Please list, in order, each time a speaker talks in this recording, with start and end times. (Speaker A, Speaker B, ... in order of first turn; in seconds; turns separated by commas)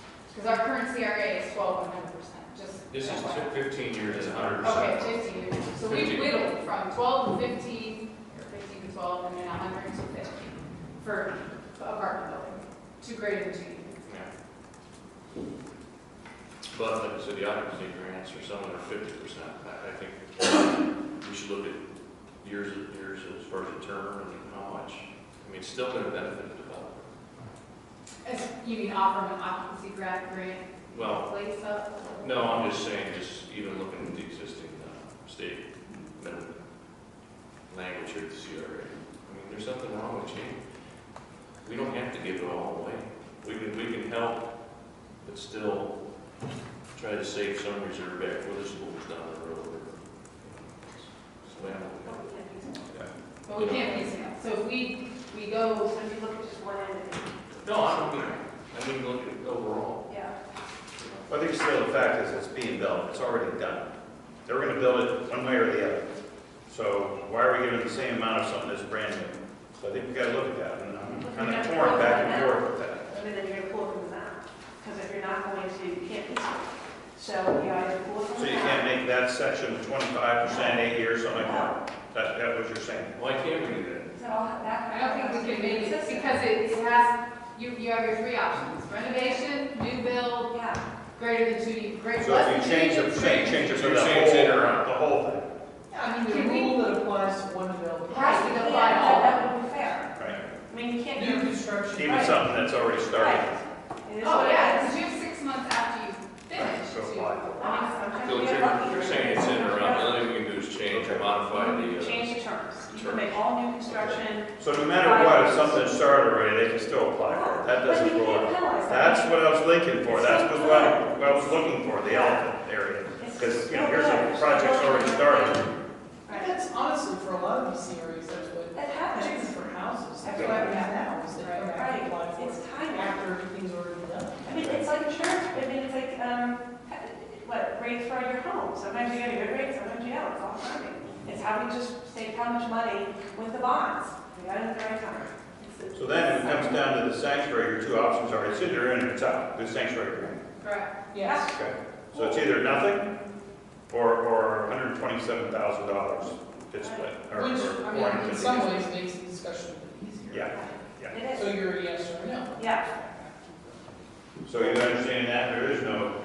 Speaker A: 0.3-3.6, Speaker B: 2.9-5.2, Speaker C: 4.2-4.6, Speaker A: 4.6-14.0, Speaker B: 5.8-6.4, Speaker B: 14.0-14.3, Speaker B: 16.7-21.8, Speaker B: 22.4-27.1, Speaker A: 28.2-32.7, Speaker B: 30.9-31.3, Speaker B: 32.2-36.5, Speaker B: 37.7-40.6, Speaker B: 41.6-44.5, Speaker B: 45.2-45.9, Speaker B: 46.9-54.0, Speaker D: 52.0-52.8, Speaker A: 53.5-55.9, Speaker D: 55.8-58.3, Speaker B: 57.6-60.1, Speaker D: 60.1-60.3, Speaker B: 61.0-61.4, Speaker C: 61.3-63.9, Speaker C: 64.5-66.1, Speaker C: 66.7-73.1, Speaker D: 71.2-78.9, Speaker C: 78.3-83.2, Speaker D: 80.4-81.8, Speaker B: 83.1-84.1, Speaker D: 84.1-86.4, Speaker A: 84.9-90.5, Speaker D: 90.5-90.8, Speaker A: 91.2-93.8, Speaker C: 92.2-95.5, Speaker B: 93.6-94.9, Speaker E: 95.9-98.2, Speaker A: 96.0-96.8, Speaker A: 98.1-99.4, Speaker D: 98.2-100.1, Speaker D: 100.7-102.4, Speaker E: 101.1-102.1, Speaker C: 101.9-103.5, Speaker D: 103.1-103.5, Speaker D: 104.0-104.9, Speaker A: 104.2-108.1, Speaker C: 106.5-107.5, Speaker D: 107.6-110.2, Speaker B: 108.2-114.2, Speaker C: 110.9-111.3, Speaker D: 111.5-115.9, Speaker C: 114.6-125.6, Speaker D: 117.2-119.4, Speaker D: 120.0-122.5, Speaker D: 123.2-125.7, Speaker D: 126.2-126.6, Speaker E: 126.4-134.4, Speaker D: 128.7-129.6, Speaker D: 130.2-131.1, Speaker C: 130.3-130.6, Speaker A: 131.4-131.8, Speaker D: 131.6-133.3, Speaker D: 134.4-146.9, Speaker C: 134.5-134.8, Speaker C: 145.9-150.4, Speaker A: 150.6-150.9, Speaker E: 151.1-151.5, Speaker D: 151.2-151.6, Speaker C: 151.5-153.1, Speaker E: 152.1-152.4, Speaker C: 153.9-158.9, Speaker D: 156.8-157.2, Speaker E: 157.3-160.4, Speaker C: 160.3-161.2, Speaker D: 160.5-161.6, Speaker E: 161.3-163.7, Speaker D: 162.6-162.9, Speaker C: 164.4-166.1